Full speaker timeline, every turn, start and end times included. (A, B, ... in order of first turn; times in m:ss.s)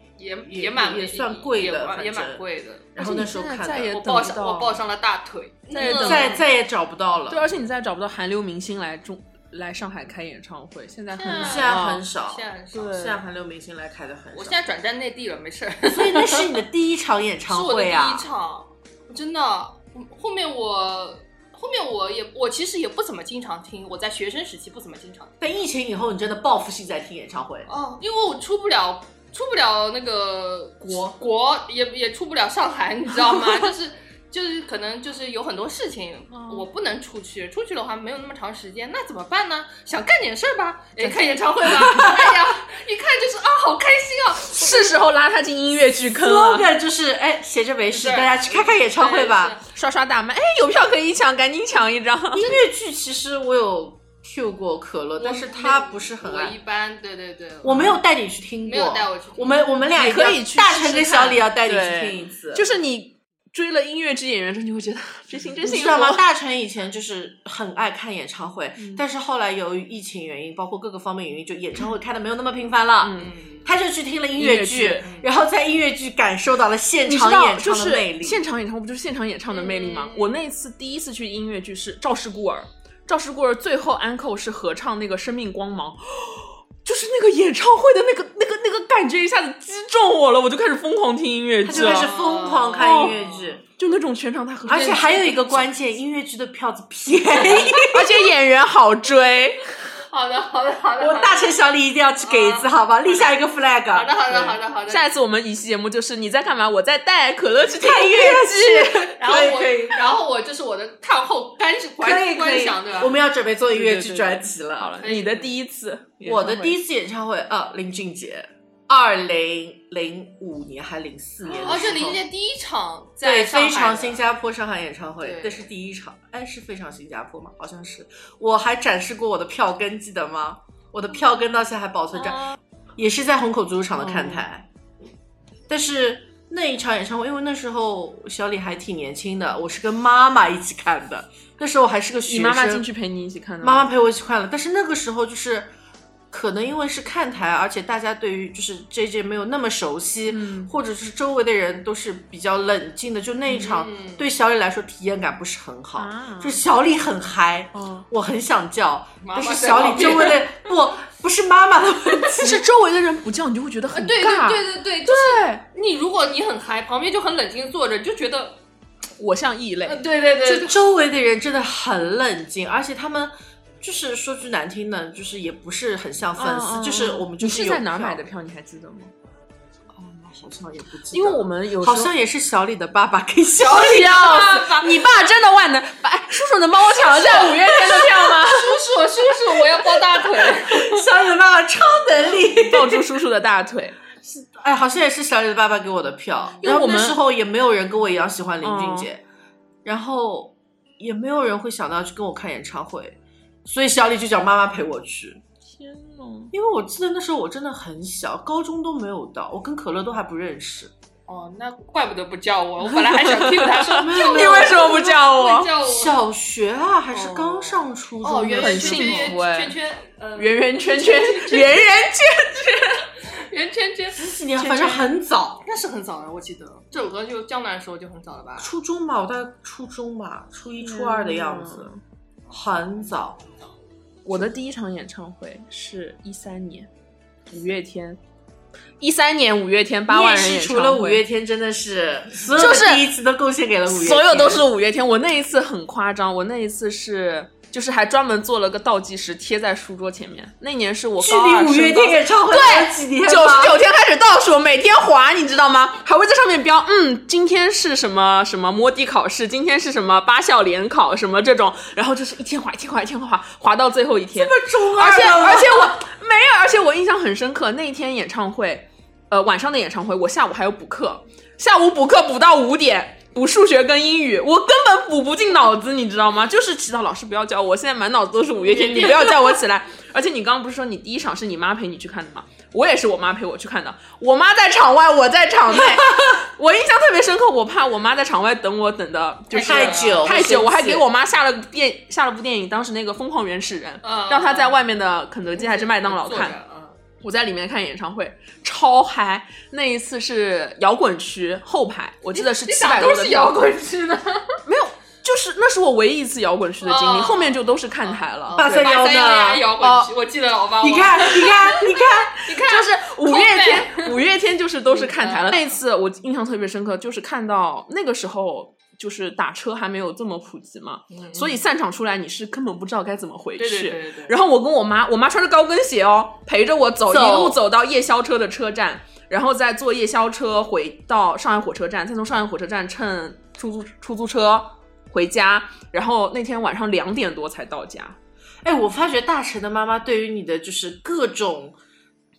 0:00.2-0:02.9 A
0:00.4-0:02.4 B
0:03.0-0:04.0 B
0:03.0-0:04.8 C
0:03.9-0:06.4 A
0:05.7-0:06.4 C
0:05.8-0:07.5 B
0:07.3-0:12.0 C
0:11.1-0:13.2 A
0:11.3-0:14.6 B
0:12.7-0:13.2 C
0:14.3-0:16.6 A
0:15.9-0:18.3 B
0:17.5-0:25.3 A
0:25.4-0:27.7 B
0:27.7-0:45.0 A
0:36.3-0:36.7 C
0:41.0-0:42.0 C
0:41.6-0:42.4 B
0:44.5-0:46.8 C
0:46.0-0:49.6 B
0:47.9-0:49.7 A
0:49.7-0:52.6 C
0:52.3-0:56.6 B
0:55.2-0:58.0 A
0:57.6-1:02.7 B
0:58.6-0:59.7 A
1:00.0-1:06.2 C
1:05.6-1:18.4 B
1:08.8-1:09.0 C
1:13.0-1:13.3 C
1:13.2-1:13.7 A
1:14.4-1:15.1 C
1:15.0-1:15.3 A
1:17.1-1:32.1 C
1:19.5-1:20.4 A
1:31.6-1:33.6 B
1:31.7-1:33.6 A
1:32.8-1:33.2 C
1:33.8-1:35.7 C
1:34.7-1:38.2 B
1:37.5-1:39.6 C
1:40.1-1:41.6 A
1:41.0-1:44.6 B
1:42.2-1:43.3 A
1:43.9-1:45.1 A
1:44.9-1:49.5 C
1:47.8-1:50.0 B
1:49.2-1:53.1 A
1:52.0-1:55.0 B
1:53.7-1:56.8 C
1:55.0-1:55.5 A
1:56.2-2:02.2 B
2:01.5-2:04.2 A
2:03.2-2:14.7 B
2:05.2-2:05.7 A
2:14.0-2:14.4 C
2:15.7-2:22.8 B
2:22.3-2:23.9 C
2:23.6-2:25.7 B
2:26.3-2:42.7 B
2:30.3-2:30.7 C
2:33.5-2:34.3 A
2:36.0-2:36.6 C
2:37.7-2:38.1 C
2:39.2-2:40.6 A
2:42.3-2:45.6 C
2:43.9-2:48.6 A
2:49.2-2:50.0 C
2:49.9-2:50.8 A
2:50.4-2:58.2 B
2:56.4-2:59.1 C
2:59.9-3:04.0 B
3:01.1-3:02.1 C
3:03.6-3:05.0 A
3:03.7-3:08.8 C
3:07.0-3:11.0 A
3:07.2-3:08.2 B
3:10.4-3:13.1 B
3:12.5-3:14.0 C
3:14.3-3:19.2 B
3:16.6-3:17.2 C
3:18.6-3:19.1 C
3:19.8-3:25.4 B
3:25.7-3:26.5 C
3:26.5-3:30.9 B
3:31.3-3:36.2 A
3:32.9-3:35.8 C
3:34.0-3:35.2 B
3:35.8-3:39.4 B
3:37.1-3:42.0 A
3:38.5-3:39.8 C
3:40.4-3:43.1 C
3:43.2-3:44.3 A
3:44.2-3:45.6 B
3:44.6-3:45.1 C
3:45.6-3:48.7 A
3:48.6-3:51.9 B
3:50.8-3:52.0 C
3:52.5-3:53.4 B
3:54.2-3:56.9 C
3:57.5-3:58.2 C
3:59.0-4:01.2 C
4:00.1-4:04.7 B
4:02.5-4:03.1 C
4:03.9-4:56.6 C
4:11.2-4:13.8 B
4:24.3-4:26.0 B
4:38.8-4:39.5 B
4:49.5-4:50.3 A
4:49.5-4:51.1 B
4:54.0-4:54.8 A
4:55.5-4:57.0 A
4:57.2-5:03.6 C
5:02.3-5:04.6 A
5:04.7-5:08.7 C
5:06.8-5:14.2 A
5:08.6-5:10.1 B
5:10.8-5:12.4 B
5:12.7-5:38.2 C
5:14.9-5:15.8 A
5:21.1-5:21.6 A
5:23.6-5:24.4 A
5:27.1-5:27.6 B
5:38.6-5:41.8 B